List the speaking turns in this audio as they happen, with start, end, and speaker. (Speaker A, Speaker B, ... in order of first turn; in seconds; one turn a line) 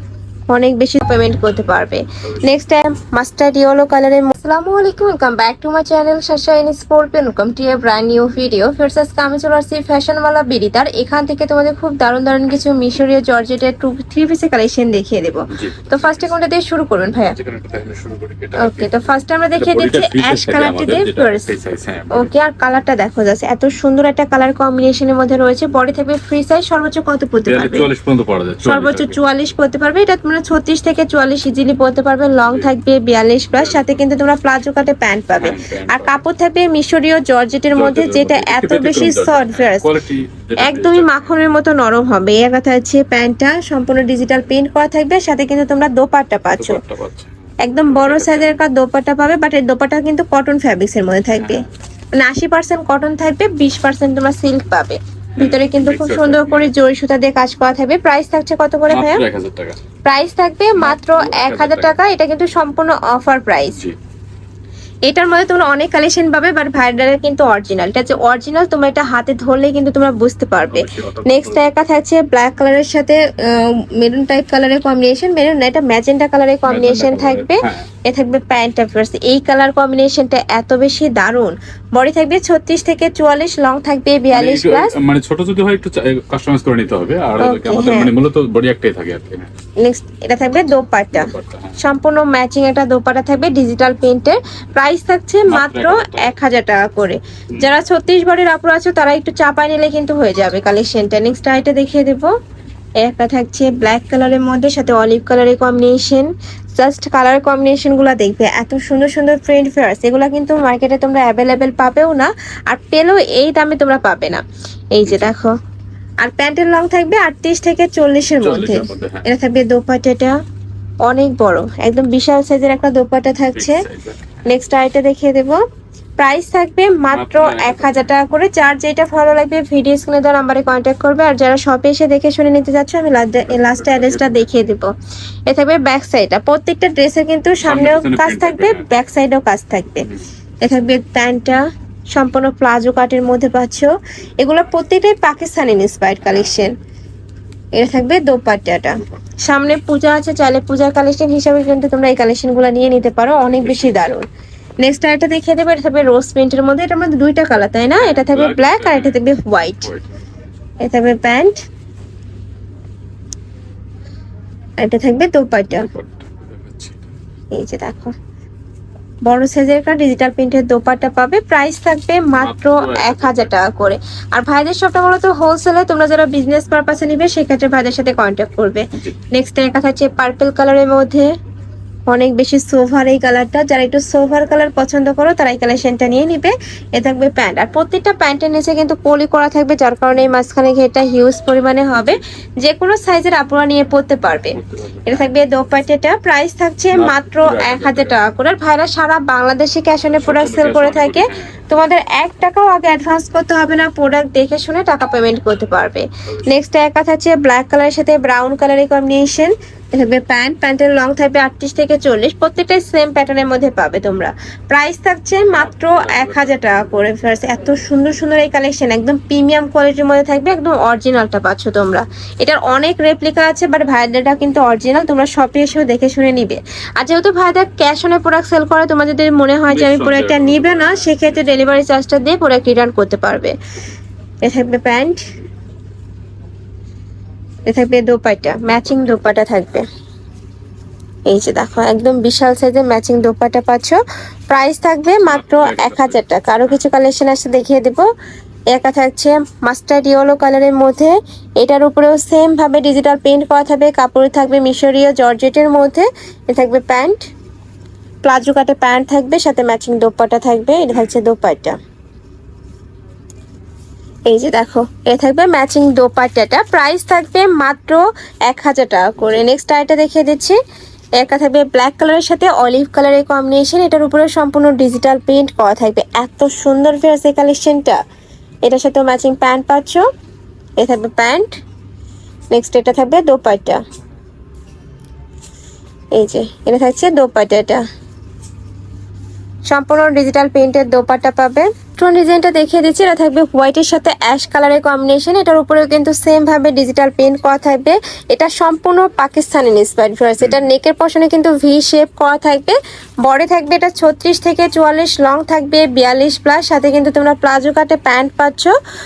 Speaker A: 0.5-17.3
Speaker B: 15.5-16.3
Speaker B: 17.2-19.0
Speaker A: 18.6-21.5
Speaker B: 19.6-22.3
Speaker A: 22.1-27.9
Speaker B: 27.5-29.2
Speaker A: 28.6-39.9
Speaker B: 32.4-32.7
Speaker B: 33.5-34.0
Speaker B: 35.3-36.2
Speaker B: 37.7-41.4
Speaker A: 40.6-46.8
Speaker B: 46.5-47.3
Speaker A: 47.6-59.2
Speaker B: 47.8-48.5
Speaker B: 51.3-51.7
Speaker B: 55.4-56.7
Speaker B: 58.9-59.8
Speaker A: 60.0-63.8
Speaker B: 60.8-62.0
Speaker A: 65.1-84.9
Speaker B: 70.6-71.7
Speaker B: 76.6-77.9
Speaker B: 84.3-89.5
Speaker A: 87.4-88.1
Speaker A: 89.8-102.3
Speaker B: 91.1-91.8
Speaker B: 95.5-96.3
Speaker A: 103.0-114.4
Speaker A: 114.9-115.5
Speaker B: 115.0-115.3
Speaker A: 116.2-120.4
Speaker B: 118.4-119.2
Speaker A: 121.0-123.8
Speaker B: 123.5-124.3
Speaker A: 124.4-125.6
Speaker A: 126.2-134.9
Speaker B: 127.1-128.1
Speaker B: 133.5-134.5
Speaker A: 135.5-140.1
Speaker B: 137.6-138.9
Speaker A: 140.6-146.7
Speaker A: 147.7-154.2
Speaker B: 153.6-154.1
Speaker A: 154.8-159.9
Speaker B: 158.0-160.1
Speaker A: 160.8-161.6
Speaker A: 164.8-165.9
Speaker B: 165.7-167.0
Speaker A: 167.5-168.1
Speaker A: 169.2-181.3
Speaker B: 172.4-173.6
Speaker A: 182.1-233.5
Speaker B: 194.5-195.3
Speaker B: 196.9-198.2
Speaker B: 200.1-201.6
Speaker B: 215.5-216.9
Speaker B: 229.7-231.7
Speaker A: 234.4-235.2
Speaker A: 237.7-239.8
Speaker A: 241.3-248.1
Speaker B: 245.2-246.2
Speaker A: 248.7-257.3
Speaker A: 258.2-261.8
Speaker B: 260.9-261.1
Speaker A: 264.3-270.6
Speaker B: 269.2-269.5
Speaker A: 271.2-278.0
Speaker A: 278.6-280.1
Speaker A: 280.8-281.6
Speaker A: 282.5-283.8
Speaker A: 286.1-287.8
Speaker A: 289.7-308.7
Speaker B: 300.4-300.6